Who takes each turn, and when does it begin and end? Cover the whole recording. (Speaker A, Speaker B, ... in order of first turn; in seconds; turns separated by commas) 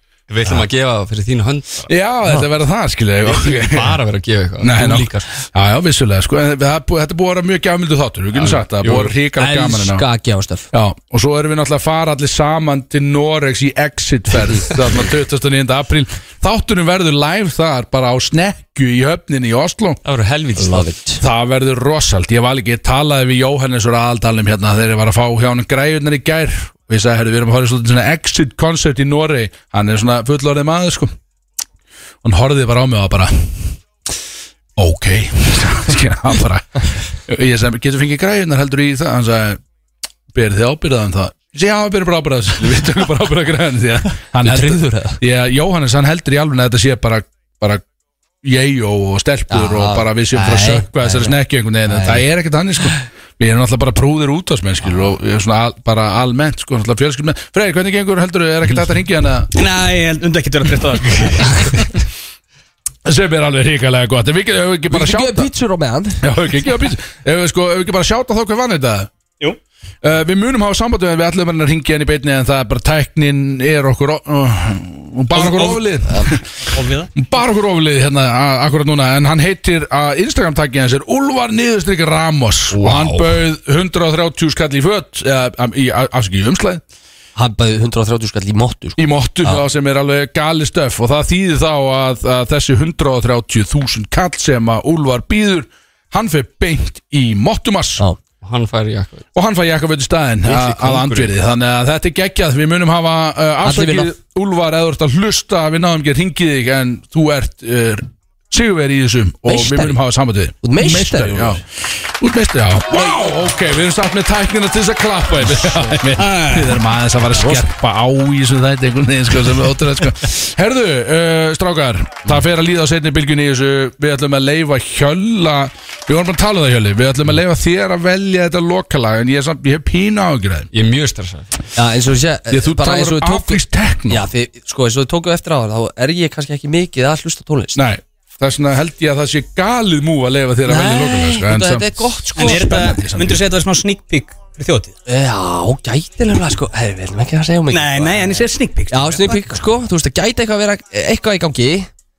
Speaker A: 0.3-1.9, Speaker B: 1.9-4.0, Speaker A: 3.2-5.3, Speaker B: 4.6-10.1, Speaker A: 8.3-9.1, Speaker C: 9.3-10.7, Speaker B: 10.7-20.0, Speaker A: 20.0-20.9, Speaker C: 20.6-21.2, Speaker B: 21.2-31.1, Speaker B: 32.2-33.8, Speaker B: 34.8-39.6, Speaker B: 40.3-47.8, Speaker C: 44.4-45.2, Speaker B: 48.4-59.5, Speaker C: 49.5-52.3, Speaker C: 54.8-55.1, Speaker D: 59.5-61.9, Speaker B: 63.0-65.5, Speaker C: 64.9-66.2, Speaker B: 66.2-69.1, Speaker B: 70.0-86.8, Speaker D: 75.3-76.0, Speaker C: 76.0-76.3, Speaker D: 76.7-77.2, Speaker A: 82.7-83.4, Speaker C: 87.3-89.6, Speaker B: 89.0-98.0, Speaker A: 98.4-99.2, Speaker B: 99.3-130.7, Speaker A: 100.4-101.3, Speaker C: 103.6-104.1, Speaker C: 109.5-110.0, Speaker C: 110.6-111.6, Speaker C: 113.0-113.2, Speaker D: 116.2-116.8, Speaker C: 117.4-117.7, Speaker A: 130.7-131.5, Speaker C: 131.7-137.8, Speaker B: 132.5-134.3, Speaker B: 137.7-143.4, Speaker C: 140.7-143.0, Speaker D: 142.4-144.9, Speaker C: 145.1-151.9, Speaker D: 147.7-149.4